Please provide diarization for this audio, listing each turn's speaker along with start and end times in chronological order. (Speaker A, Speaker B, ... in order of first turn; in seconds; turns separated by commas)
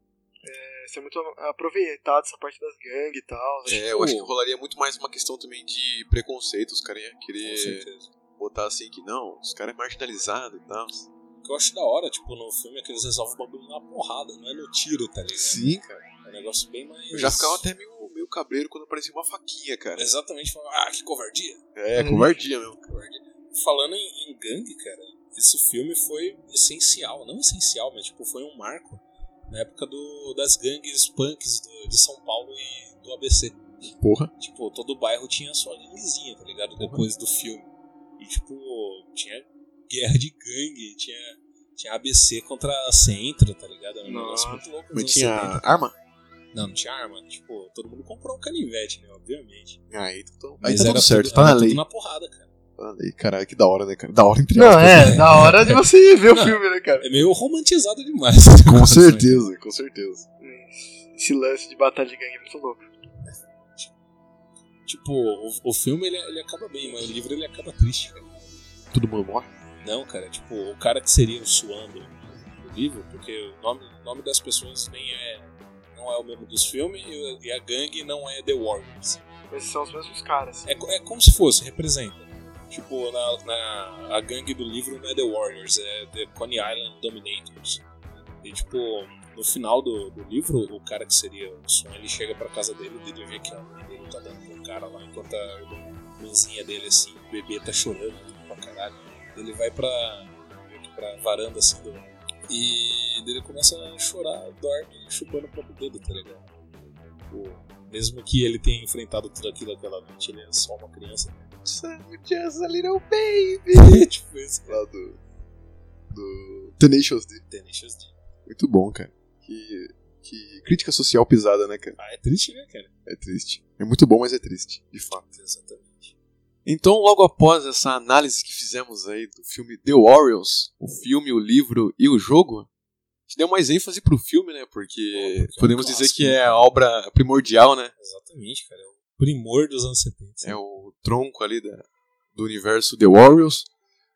Speaker A: 0.4-3.9, Speaker B: 3.7-4.3, Speaker C: 3.7-7.9, Speaker B: 7.4-8.1, Speaker C: 8.4-11.1, Speaker B: 11.4-15.7, Speaker C: 15.3-16.0, Speaker B: 16.2-17.6, Speaker C: 17.1-20.1, Speaker B: 19.9-21.6, Speaker C: 21.8-22.8, Speaker A: 22.0-22.4, Speaker B: 22.9-33.6, Speaker C: 33.8-34.3, Speaker B: 34.4-45.7, Speaker C: 36.8-37.1, Speaker A: 44.0-44.6, Speaker C: 44.9-45.9, Speaker B: 46.5-49.8, Speaker C: 49.9-51.8, Speaker B: 50.6-52.5, Speaker C: 52.8-55.5, Speaker A: 54.5-57.1, Speaker B: 54.9-59.5, Speaker C: 58.6-60.3, Speaker A: 60.4-62.8, Speaker B: 64.9-68.3, Speaker C: 68.9-69.5, Speaker B: 69.8-79.2, Speaker A: 79.5-80.8, Speaker B: 80.7-87.8, Speaker B: 88.4-106.5, Speaker B: 107.3-111.5, Speaker C: 111.7-114.1, Speaker B: 113.7-114.8, Speaker C: 114.7-115.2, Speaker C: 116.1-117.4, Speaker B: 117.5-118.2, Speaker C: 118.5-122.0, Speaker B: 122.0-122.9, Speaker C: 123.1-125.3, Speaker B: 125.3-126.1, Speaker C: 126.7-132.7, Speaker C: 133.3-137.9, Speaker B: 135.1-136.7, Speaker B: 138.0-140.6, Speaker C: 140.4-143.7